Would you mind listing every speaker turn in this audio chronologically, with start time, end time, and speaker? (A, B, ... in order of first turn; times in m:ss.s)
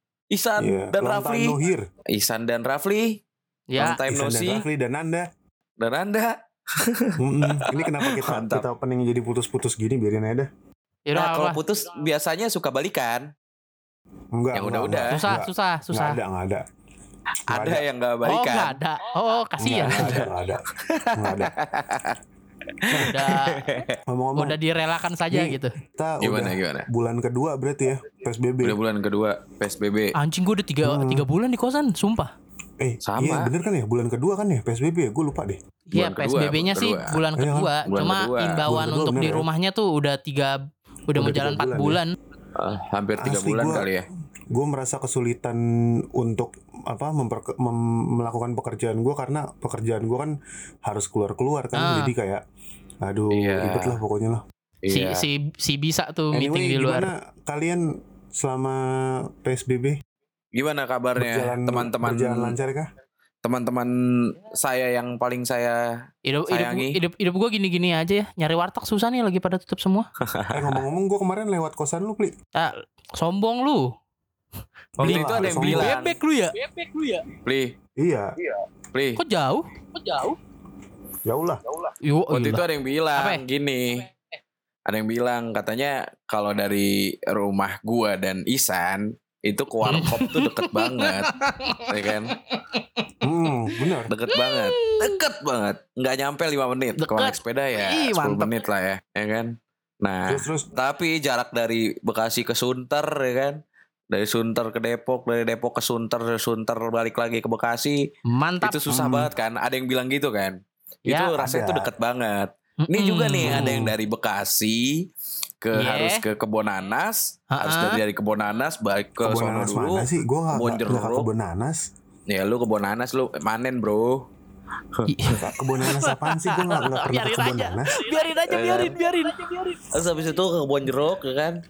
0:00.3-0:01.6 A
0:00.6-0:01.9 B
0:02.1-0:03.2 A
0:03.7-0:04.0 C
0:03.8-0:04.6 A
0:04.1-0:05.3 B
0:05.8-0:08.6 A
0:07.2-0:10.5 B
0:11.1-0:11.6 C
0:11.2-0:13.3 A
0:14.3-0:16.6 B
0:14.5-0:15.2 A
0:15.1-0:16.2 C
0:17.5-0:18.8 A
0:17.5-0:17.8 B
0:18.2-0:20.2 C
0:19.6-0:21.5 B
0:19.6-0:22.2 A
0:22.8-0:24.0 A
0:22.9-0:23.2 B
0:23.1-0:23.8 C
0:24.1-0:24.6 B
0:24.4-0:25.8 C
0:25.3-0:28.8 B
0:26.2-0:26.9 A
0:28.6-0:30.1 A
0:30.2-0:32.3 C
0:30.8-0:31.3 B
0:32.8-0:35.6 B
0:33.0-0:33.5 A
0:35.9-0:42.1 C
0:36.0-0:37.2 A
0:37.4-0:37.8 B
0:37.9-0:38.7 A
0:38.6-0:39.5 B
0:41.2-0:42.0 B
0:42.6-0:44.1 A
0:43.2-0:43.9 B
0:44.5-0:45.6 B
0:46.1-0:52.4 B
0:51.8-0:52.1 C
0:53.0-0:54.4 B
0:53.3-0:54.0 A
0:54.8-0:55.3 A
0:54.9-0:57.1 C
0:56.3-1:00.0 B
1:00.6-1:02.6 A
1:01.2-1:02.9 B
1:03.4-1:05.9 A
1:06.2-1:10.1 C
1:06.5-1:07.0 A
1:10.3-1:10.8 A
1:10.5-1:12.3 B
1:12.6-1:13.9 C
1:15.0-1:16.0 B
1:15.0-1:17.2 C
1:15.0-1:16.2 A
1:17.4-1:17.7 A
1:18.0-1:18.3 B
1:18.9-1:19.2 A
1:19.2-1:20.4 C
1:21.3-1:21.6 B
1:22.0-1:22.6 C
1:22.3-1:24.1 A
1:23.2-1:23.4 C
1:24.9-1:31.3 A
1:29.9-1:32.8 C
1:31.9-1:32.4 A
1:33.2-1:34.1 B
1:34.1-1:43.6 A
1:34.3-1:35.2 C
1:37.0-1:38.6 C
1:40.3-1:40.7 B
1:44.1-1:48.0 A
1:48.3-1:49.0 C
1:48.6-1:55.1 A
1:48.9-1:49.3 B
1:51.1-1:51.3 C
1:51.4-1:51.9 B
1:52.8-1:53.9 C
1:53.4-1:53.9 B
1:55.6-2:01.3 A
1:55.7-1:56.2 C
1:57.5-1:58.0 C
1:59.2-2:01.9 B
2:02.3-2:04.3 A
2:05.1-2:09.9 C
2:05.3-2:07.9 B
2:08.5-2:09.0 A
2:09.9-2:11.6 A